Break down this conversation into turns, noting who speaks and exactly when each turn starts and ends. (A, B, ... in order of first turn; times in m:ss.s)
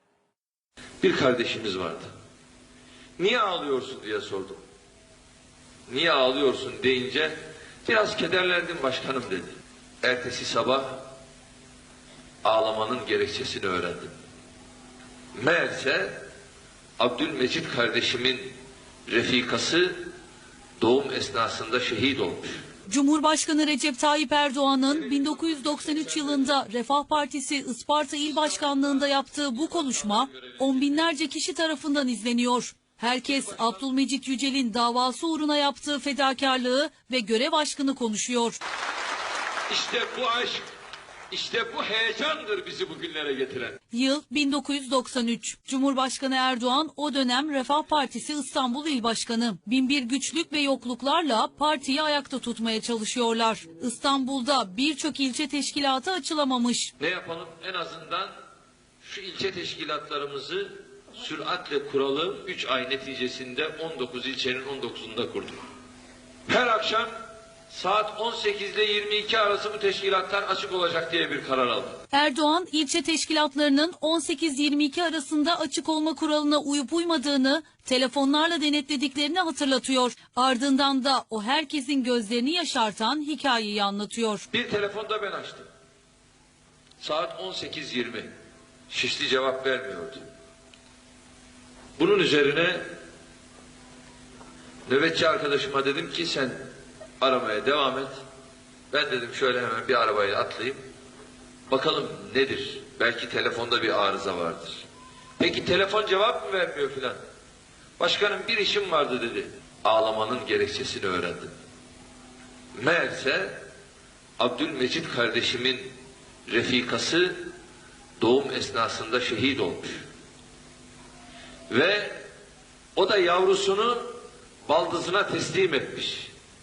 0:01.0-0:02.1 A
0:03.2-0:04.6 A
0:05.9-0:11.1 A
0:12.4-0:14.1 A
0:15.4-0:16.2 A
0:17.0-0:18.5 A
0:19.1-0:20.1 A
0:20.8-0:22.6 A
0:22.9-0:38.6 B
0:24.9-0:26.5 A
0:28.2-0:31.1 A
0:33.2-0:33.8 A
0:39.7-0:40.6 A
0:41.3-0:43.8 A
0:43.9-0:56.9 B
0:57.0-0:58.3 A
0:59.0-1:05.6 A
1:06.5-1:07.1 A
1:07.7-1:12.0 A
1:12.1-1:24.4 B
1:24.5-1:25.7 A
1:27.0-1:28.3 A
1:28.9-1:30.2 A
1:32.0-1:32.8 A
1:34.8-1:36.6 A
1:37.2-1:38.2 A
1:38.9-1:40.8 A
1:41.7-1:44.8 A
1:45.4-1:47.2 A
1:48.0-1:51.5 A
1:52.8-1:53.6 A
1:54.4-1:55.9 A
1:56.5-1:57.5 A
1:58.2-2:00.0 A
2:01.7-2:02.2 A
2:03.0-2:04.1 A
2:04.6-2:06.3 A